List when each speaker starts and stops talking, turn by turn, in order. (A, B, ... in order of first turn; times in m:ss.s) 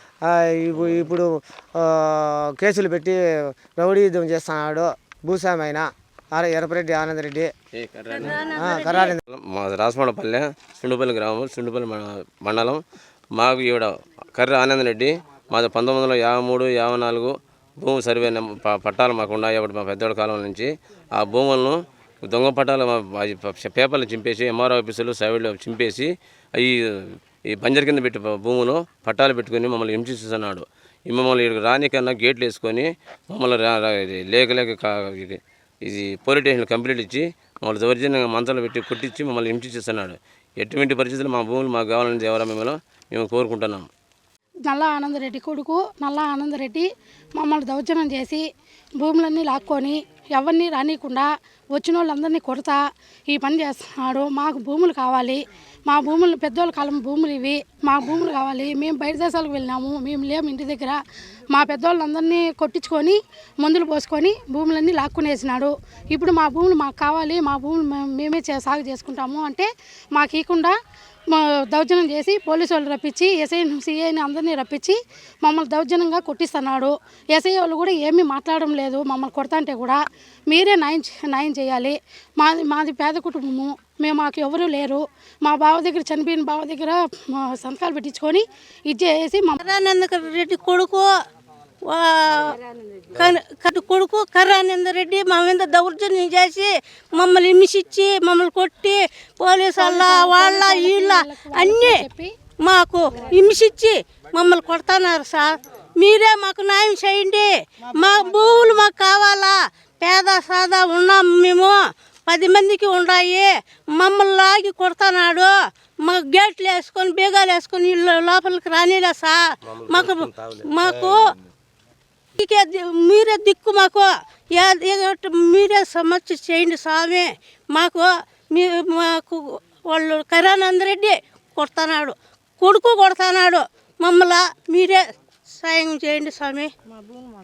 0:00.3-0:03.2 A
0:03.8-0:07.5 A
0:07.8-0:08.4 B
0:08.1-0:09.2 C
0:08.6-0:09.2 A
0:09.3-0:12.8 B
0:13.4-0:26.8 B
0:27.5-0:43.9 B
0:44.7-0:48.4 D
0:49.0-1:10.8 D
1:11.3-1:29.6 D
1:29.6-1:31.1 C
1:31.9-1:32.6 C
1:33.1-1:42.0 C
1:39.8-1:42.3 D
1:42.6-1:55.5 C
1:56.0-2:01.3 C
2:02.4-2:15.0 C
2:15.5-2:16.7 C